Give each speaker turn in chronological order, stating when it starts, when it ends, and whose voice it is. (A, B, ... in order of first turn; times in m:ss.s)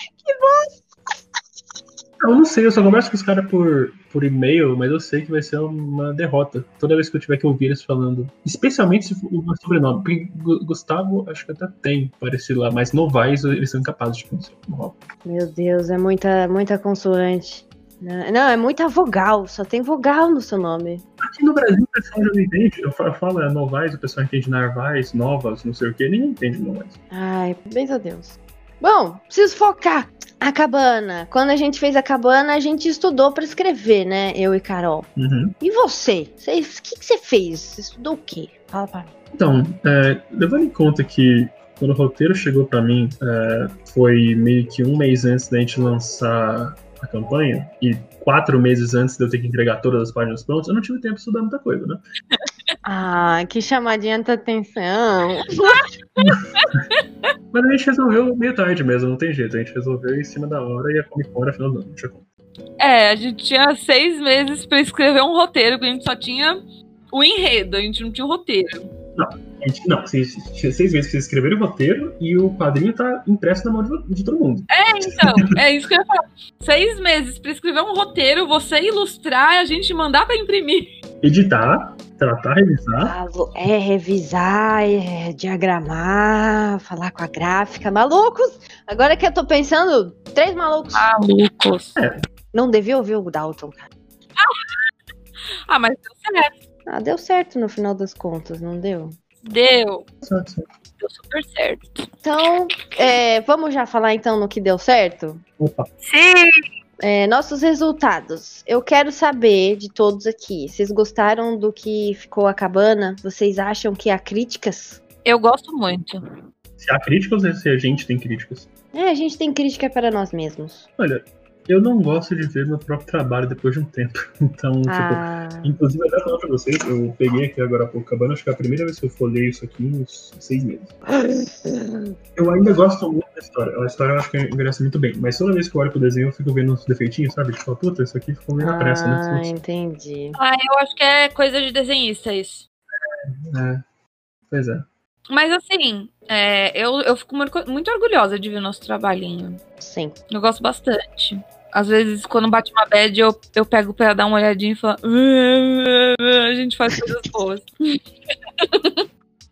0:00.2-0:00.8 A
0:02.2-0:15.0 B
0:15.2-0:21.0 A
0:21.2-0:27.0 B
0:27.1-0:35.1 A
0:35.2-0:35.5 B
0:35.6-0:39.1 A
0:39.3-0:52.0 B
0:52.8-0:55.8 A
0:55.6-0:57.0 C
0:56.2-0:56.8 B
0:57.5-1:02.2 B
1:02.8-1:06.6 C
1:07.1-1:08.9 C
1:09.1-1:15.5 B
1:14.7-1:20.9 C
1:21.2-1:23.1 B
1:23.0-1:31.0 A
1:30.9-1:32.0 C
1:32.0-1:32.2 B
1:32.5-1:33.8 A
1:34.4-1:34.8 C
1:35.7-1:36.5 C
1:36.9-1:39.2 A
1:39.4-1:40.0 C
1:40.2-1:40.6 B
1:41.0-1:42.0 C
1:42.2-1:45.4 A
1:45.6-1:45.9 B
1:46.0-1:46.6 C
1:47.0-1:55.0 A
1:55.2-1:56.2 C
1:56.8-1:58.7 B
1:58.9-2:00.9 A
2:01.0-2:10.9 B
2:04.9-2:05.7 A
2:11.1-2:12.1 A
2:12.4-2:19.5 B
2:18.6-2:20.4 A
2:20.4-2:22.6 C
2:23.3-2:23.8 B
2:24.5-2:24.9 B
2:25.3-2:29.6 C
2:29.8-2:30.1 A
2:30.3-2:38.0 C
2:38.6-2:39.0 C